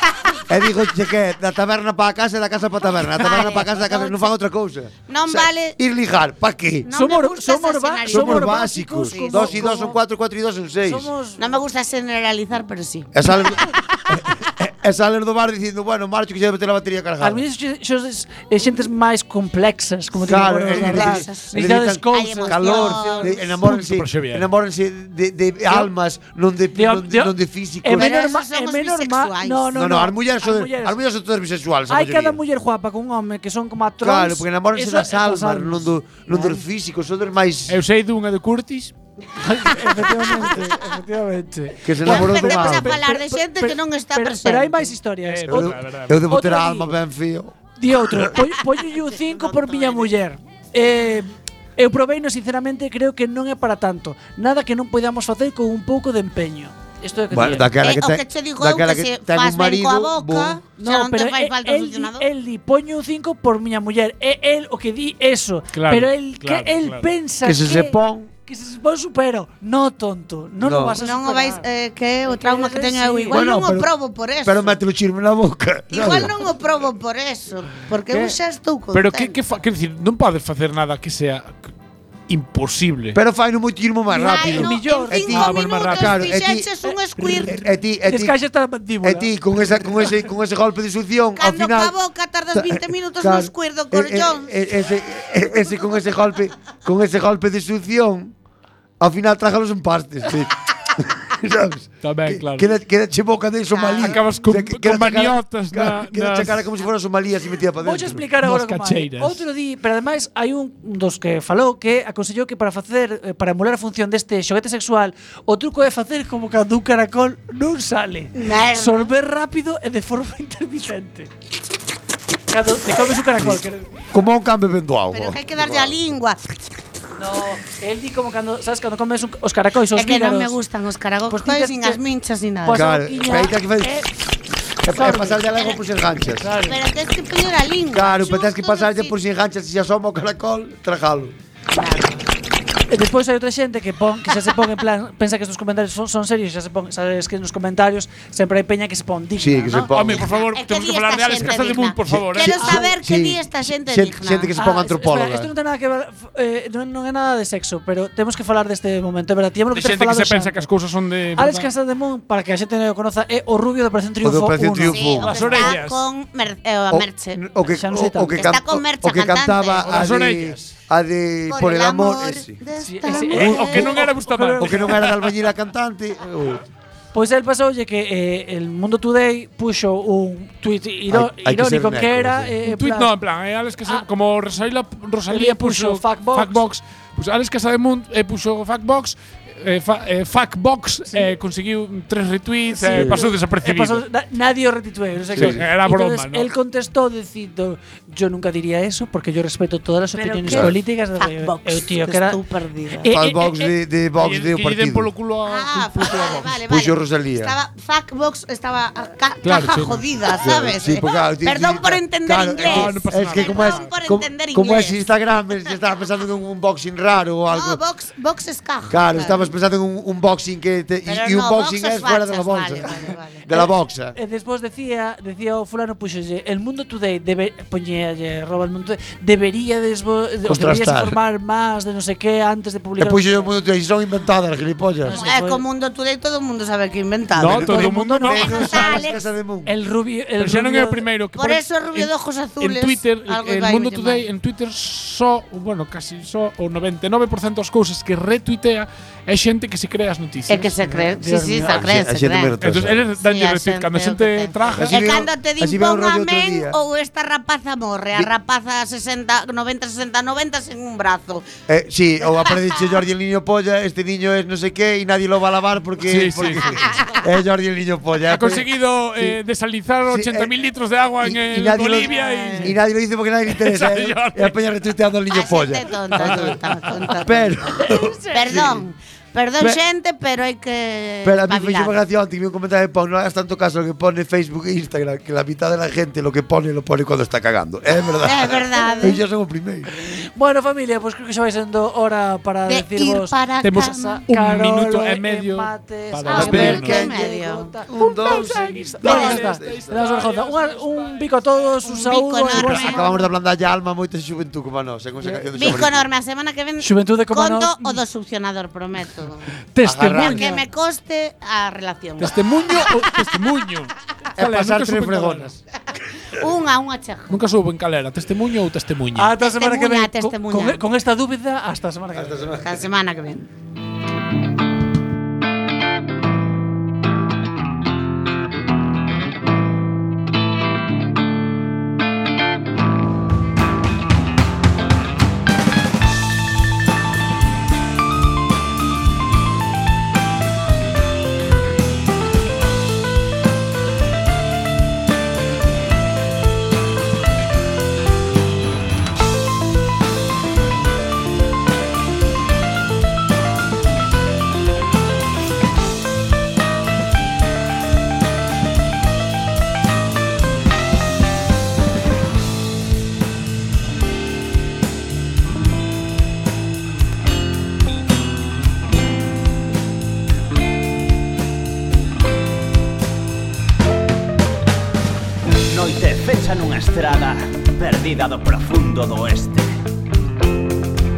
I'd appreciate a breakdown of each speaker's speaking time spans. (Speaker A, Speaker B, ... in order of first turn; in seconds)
Speaker A: 0.5-6.9, 8.1-11.1, 13.1-17.4, 20.2-28.2, 29.7-32.4, 34.0-37.8, 41.8-43.0, 45.5-47.5, 57.3-60.6, 67.4-68.3, 70.6-71.0, 73.3-73.9, 74.4-76.3, 83.1-86.7, 87.5-88.3, 89.0-91.9, 92.5-98.3, 99.0-108.2, 124.1-126.0, 132.7-134.1, 134.8-136.5, 137.9-141.3, 149.4-150.2, 152.1-155.5, 164.2-165.6, 166.9-172.6, 173.1-176.6, 181.1-182.5, 192.8-193.3, 195.3-195.6, 200.5-200.7, 203.1-205.1, 206.7-207.5, 210.3-217.8, 218.9-224.1, 230.5-231.2, 233.0-235.1, 237.4-239.7, 251.7-253.0, 254.8-256.8, 261.7-269.4, 270.1-270.6, 271.2-276.6, 277.1-278.8, 281.2-289.9, 296.3-297.2, 297.9-299.8, 302.5-306.1, 309.8-310.5, 314.3-315.6, 322.1-322.8
Speaker B: 3.1-4.3, 5.1-5.8, 6.8-9.7, 11.4-13.7, 20.4-23.5, 27.9-29.8, 42.0-45.0, 49.3-50.1, 57.8-62.3, 71.0-74.8, 75.9-79.4, 84.1-87.6, 91.4-94.5, 103.7-104.3, 118.3-119.1, 125.1-126.4, 129.9-132.9, 135.5-135.8, 136.5-139.1, 141.7-142.2, 149.7-154.5, 164.8-167.4, 168.3-170.1, 171.5-174.1, 200.1-203.1, 205.4-215.0, 217.5-219.5, 221.1-223.4, 235.1-239.2, 241.3-244.3, 250.5-261.5, 262.2-263.0, 266.6-267.2, 272.0-272.7, 275.3-277.6, 278.3-281.9, 288.2-289.2, 292.7-294.2, 296.3-297.7, 299.0-299.5, 301.8-303.0, 305.5-309.5, 310.1-313.1, 316.3-317.4, 319.3-320.8, 322.6-323.5
Speaker C: 6.9-10.0, 10.8-11.4, 17.2-23.5, 26.7-31.0, 31.9-36.6, 39.4-47.0, 47.8-57.7, 60.8-71.7, 72.2-73.5, 84.1-85.5, 86.8-90.1, 107.8-121.3, 122.5-123.9, 127.2-130.6, 131.3-132.0, 132.6-134.1, 134.9-135.4, 136.4-136.8, 142.9-149.9, 152.5-152.9, 154.6-160.7, 161.3-165.6, 167.7-168.5, 172.8-175.1, 177.1-183.2, 183.8-184.1, 185.3-186.6, 191.1-191.3, 192.7-202.4, 203.0-203.8, 223.5-233.5, 235.0-235.6, 237.6-238.9, 239.6-241.0, 250.8-251.8, 277.7-278.7, 290.3-303.3, 306.8-308.0, 309.7-310.6, 319.1-322.4
Speaker D: 23.7-24.4, 37.7-38.9, 45.3-46.2, 65.7-67.0, 78.9-81.6, 82.3-83.2, 85.5-86.2, 102.0-102.6, 104.0-106.6, 108.4-109.4, 149.9-152.5, 159.7-161.7, 165.3-166.0, 169.9-170.6, 173.5-175.2, 182.7-194.0, 195.4-196.5, 204.2-206.5, 209.4-210.0, 212.6-213.8, 237.4-238.8, 240.4-242.1, 242.6-250.7, 252.6-255.0, 266.1-266.8, 268.3-272.6, 273.6-274.5, 293.6-296.9, 298.2-301.2, 312.2-315.5, 317.3-319.3
Speaker E: 375.6-379.8